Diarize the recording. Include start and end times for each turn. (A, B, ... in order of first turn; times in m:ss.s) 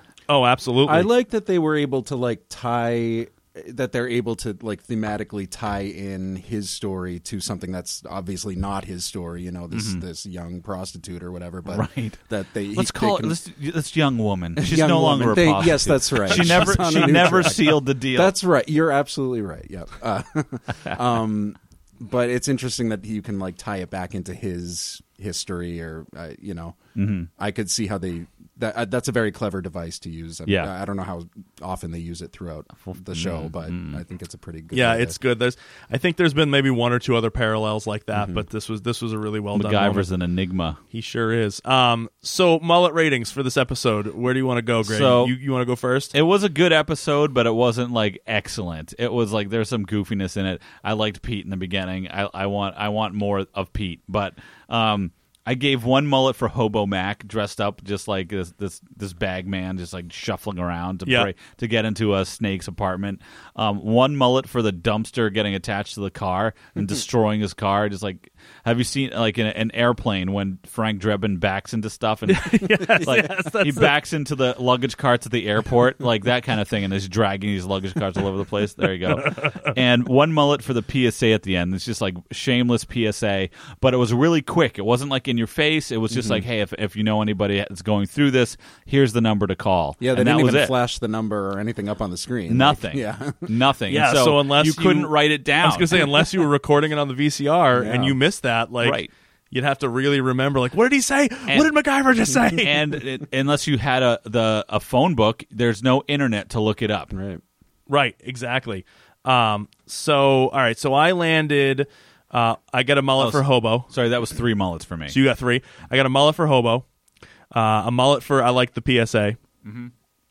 0:00.3-0:01.1 A
0:00.8-0:13.3 B
0:09.7-0:10.0 C
0:11.7-0:18.3 C
0:14.6-0:26.8 B
0:27.0-0:27.3 C
0:27.4-0:35.2 B
0:32.9-0:34.0 C
0:34.7-0:40.1 A
0:39.5-0:40.8 C
0:40.9-0:46.1 A
0:44.8-0:45.3 C
0:46.1-1:30.7 C
1:01.0-1:01.3 A
1:12.3-1:13.9 A
1:19.2-1:19.7 A
1:26.1-1:26.4 B
1:30.0-1:33.5 B
1:32.5-1:36.1 C
1:33.9-1:39.0 A
1:37.7-1:38.2 B
1:38.8-1:39.1 C
1:39.5-1:42.8 A
1:42.6-1:47.1 C
1:47.1-1:47.4 B
1:47.9-1:53.9 A
1:53.2-1:55.2 C
1:55.1-1:56.8 A
1:57.5-1:59.4 A
1:59.6-1:59.9 C